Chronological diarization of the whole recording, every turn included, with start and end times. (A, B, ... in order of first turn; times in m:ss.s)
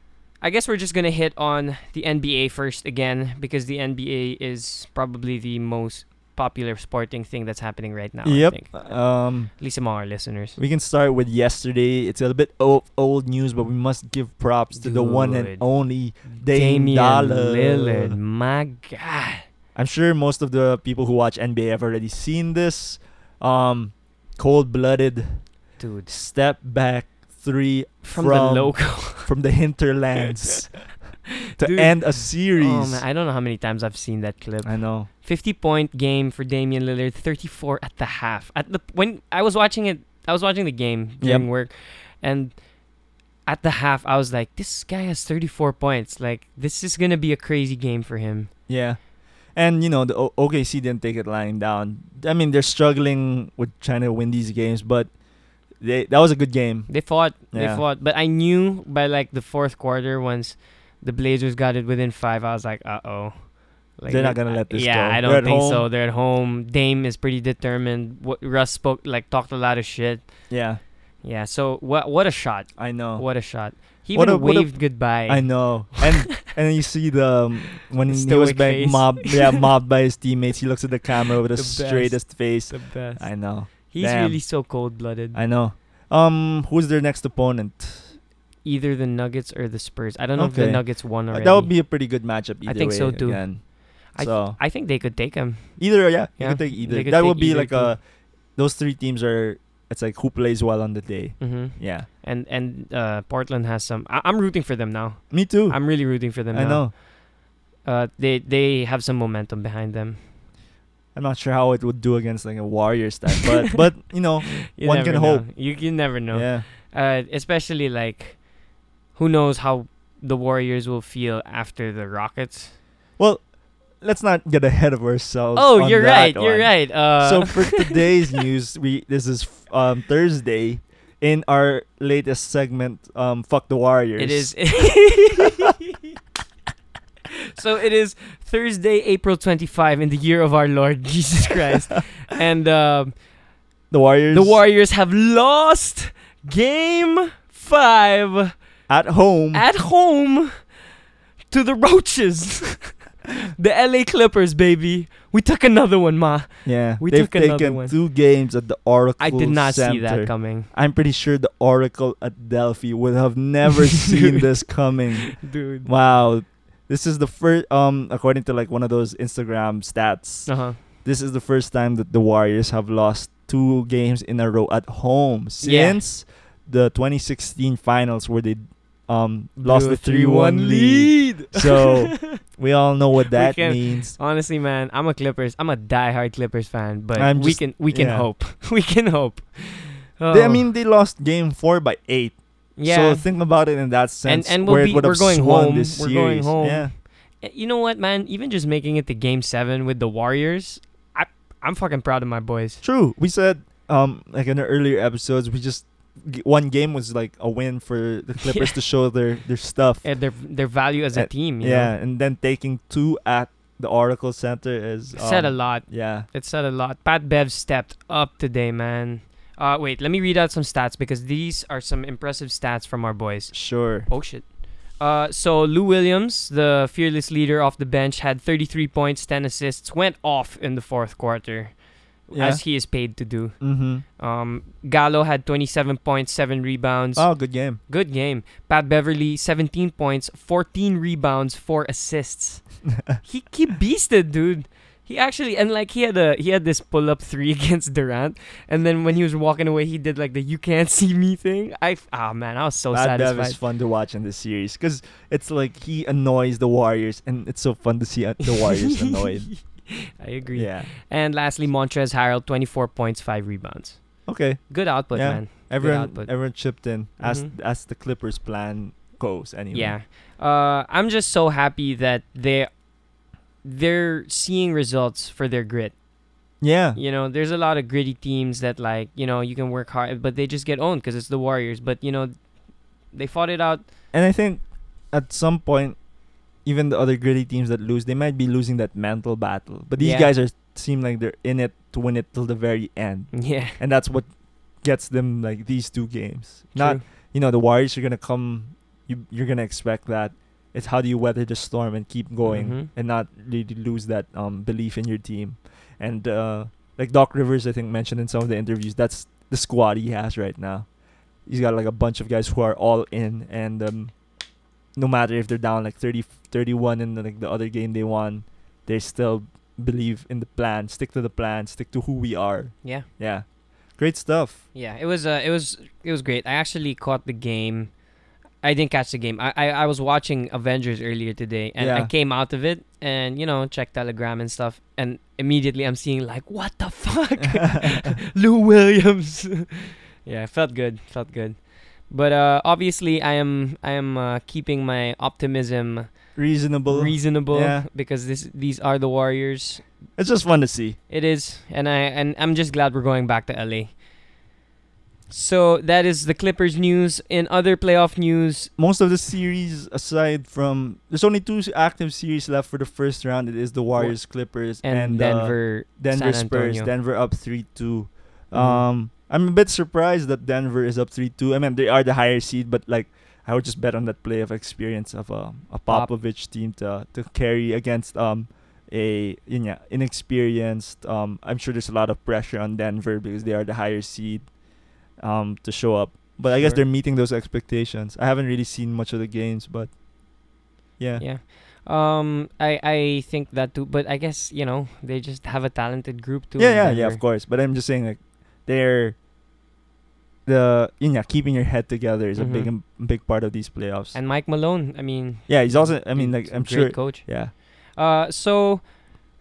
0:00.4-0:10.6 A
0:08.2-0:09.6 B
0:10.6-0:18.2 B
0:14.7-0:19.4 A
0:19.7-0:33.0 B
0:25.8-0:26.1 A
0:28.0-0:29.3 A
0:31.6-0:42.7 A
0:34.6-0:35.1 B
0:41.2-0:41.5 B
0:43.4-0:48.5 A
0:48.7-0:55.1 B
0:55.7-0:57.8 B
0:56.9-1:10.7 A
1:04.1-1:05.9 B
1:10.5-1:10.8 B
1:11.2-1:16.1 A
1:12.8-1:28.2 B
1:18.1-1:19.4 A
1:21.5-1:25.4 A
1:28.6-1:38.0 A
1:30.4-1:34.6 B
1:35.8-1:42.1 B
1:41.4-1:47.1 A
1:45.3-1:46.9 B
1:47.8-1:50.2 A
1:51.1-1:56.7 B
1:54.5-1:58.6 A
1:59.1-2:02.8 A
2:03.2-2:15.1 B
2:05.5-2:08.0 A
2:14.2-2:15.7 A
2:17.6-2:23.2 A
2:23.9-2:24.6 B
2:24.3-2:28.6 A
2:28.9-2:29.6 B
2:29.5-2:30.7 A
2:31.5-2:38.0 A
2:36.6-3:04.2 B
2:39.2-2:40.7 A
2:44.1-2:45.9 A
2:50.4-2:50.8 A
2:55.6-2:56.0 A
2:59.6-3:02.4 A
3:03.3-3:10.7 A
3:07.1-3:08.3 B
3:10.3-3:16.9 B
3:12.8-3:13.3 A
3:14.2-3:22.8 A
3:22.8-3:30.2 B
3:28.4-3:28.7 A
3:30.0-3:31.9 A
3:31.1-3:36.3 B
3:35.1-4:13.6 A
3:43.5-3:44.1 B
3:52.3-3:54.0 B
3:57.2-3:57.8 B
4:12.9-4:19.8 B
4:18.5-4:27.5 A
4:20.5-4:20.9 B
4:24.2-4:30.0 B
4:29.7-4:32.8 A
4:33.6-4:36.0 A
4:36.6-4:37.0 B
4:36.9-4:43.9 A
4:44.1-5:10.9 B
4:50.0-4:50.3 A
4:53.3-4:53.8 A
4:56.7-4:57.0 A
5:02.4-5:02.9 A
5:11.4-5:14.2 B
5:14.9-5:24.6 B
5:24.7-5:28.0 A
5:28.6-5:49.9 A
5:31.8-5:32.1 B
5:37.5-5:38.1 B
5:46.3-5:47.8 B
5:50.2-5:51.0 B
5:51.1-5:54.0 A
5:55.3-5:58.7 A
5:58.8-6:24.5 B
6:04.0-6:06.9 A
6:08.5-6:08.9 A
6:15.9-6:16.1 A
6:25.2-6:30.0 B
6:26.5-6:26.8 A
6:31.0-6:31.2 B
6:31.2-6:37.2 A
6:36.6-6:39.2 B
6:40.4-6:44.2 B
6:42.4-6:42.7 A
6:44.1-6:49.1 A
6:45.5-6:47.5 B